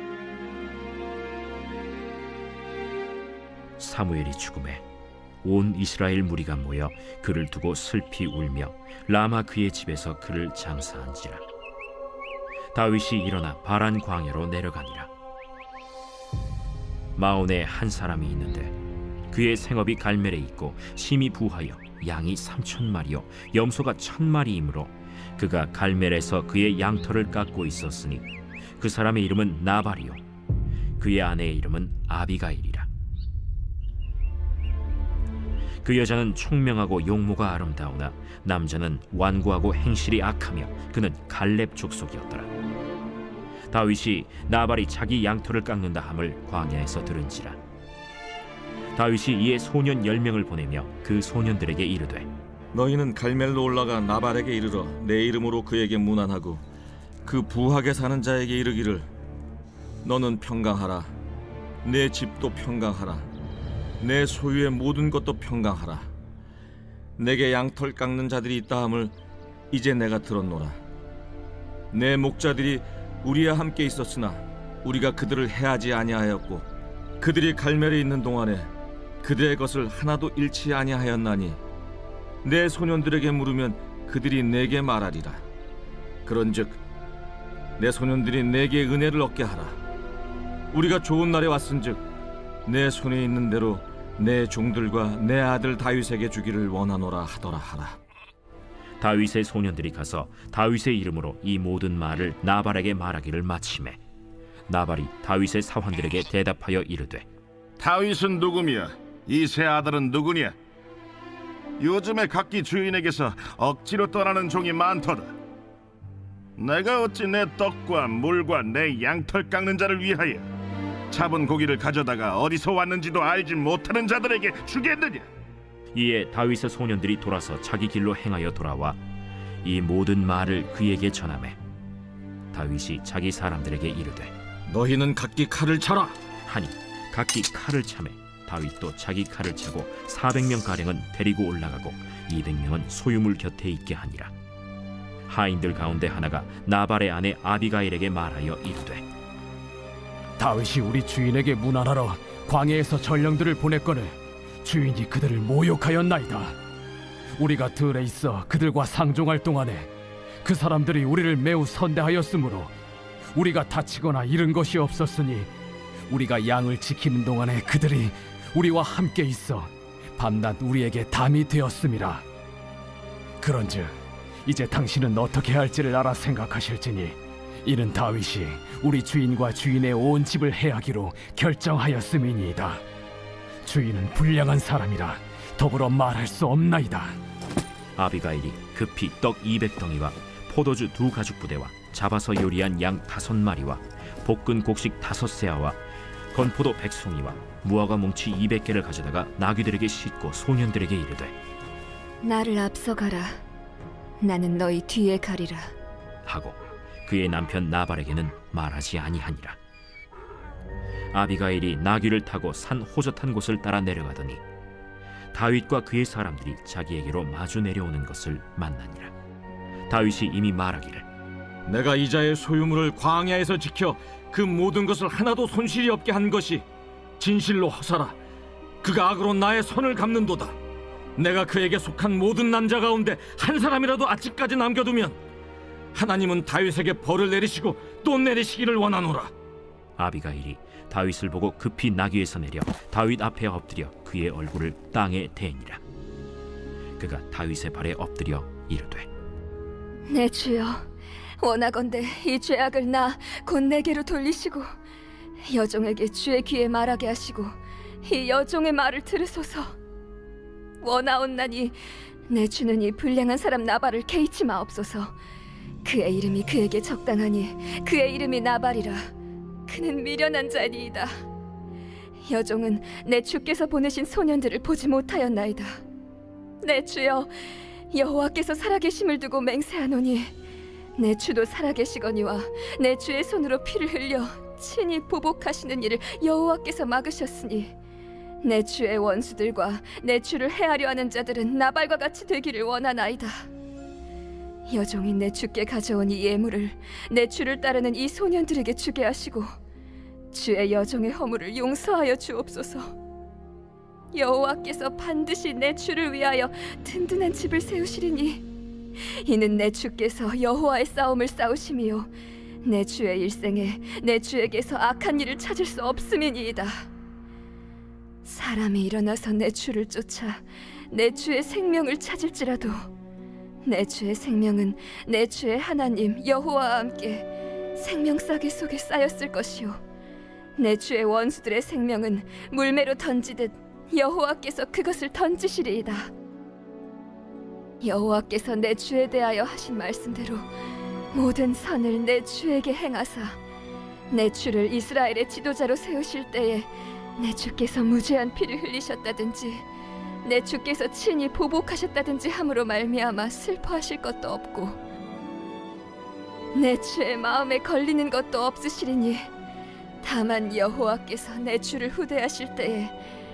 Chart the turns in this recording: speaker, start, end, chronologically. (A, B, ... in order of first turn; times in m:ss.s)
0:03.8-0:04.8 A
0:05.4-0:11.4 A
0:12.7-0:15.1 A
0:17.2-0:18.7 A
0:19.3-0:30.2 A
0:31.0-0:32.9 A
0:35.8-0:42.5 A
0:43.7-0:47.6 A
0:48.9-0:52.3 A
0:52.7-0:56.6 B
0:57.2-0:59.1 B
1:00.0-1:01.1 B
1:01.8-1:03.3 B
1:04.0-1:06.1 B
1:07.2-1:09.2 B
1:09.7-1:10.8 B
1:11.9-1:16.7 B
1:17.2-1:18.7 B
1:19.2-1:21.6 B
1:22.4-1:25.4 B
1:26.2-1:26.8 B
1:27.8-1:29.8 B
1:30.7-1:32.0 B
1:32.6-1:38.0 B
1:39.0-1:44.0 A
1:44.7-1:47.2 A
1:47.8-1:50.6 C
1:51.8-1:55.3 C
1:56.6-2:00.5 C
2:01.1-2:05.2 C
2:05.9-2:09.0 A
2:09.6-2:11.6 A
2:12.5-2:14.3 A
2:14.7-2:16.2 B
2:16.4-2:24.3 A
2:25.3-2:29.0 A
2:30.4-2:36.6 D
2:37.4-2:39.9 D
2:40.4-2:42.7 D
2:43.3-2:45.5 D
2:46.1-2:52.2 D
2:53.4-2:53.9 D
2:54.4-3:02.8 D
3:03.6-3:07.2 D
3:08.0-3:15.8 A
3:16.3-3:21.3 A
3:22.2-3:23.4 E
3:24.2-3:25.7 E
3:26.2-3:29.6 A
3:31.1-3:34.4 A
3:35.3-3:39.1 A
3:39.9-3:41.0 A
3:41.6-3:46.6 B
3:47.2-3:48.2 B
3:48.8-3:50.6 B
3:51.2-3:55.2 B
3:55.9-3:59.3 B
4:00.0-4:05.8 A
4:07.0-4:09.1 A
4:10.1-4:10.9 E
4:11.4-4:14.7 E
4:15.4-4:19.7 E
4:20.8-4:25.1 E
4:25.8-4:29.1 E
4:29.7-4:31.1 E
4:32.3-4:35.8 E
4:36.6-4:37.3 E
4:37.9-4:40.3 E
4:41.0-4:47.7 E
4:48.4-4:53.5 E
4:54.7-4:59.5 E
5:00.3-5:02.9 E
5:04.1-5:08.4 E
5:09.1-5:12.1 E
5:12.6-5:16.9 E
5:18.2-5:22.9 E
5:23.6-5:29.8 E
5:30.6-5:36.1 E
5:37.8-5:40.5 E
5:41.1-5:43.4 E
5:44.1-5:49.6 E
5:50.2-5:54.8 E
5:56.5-5:59.3 E
6:00.0-6:03.0 E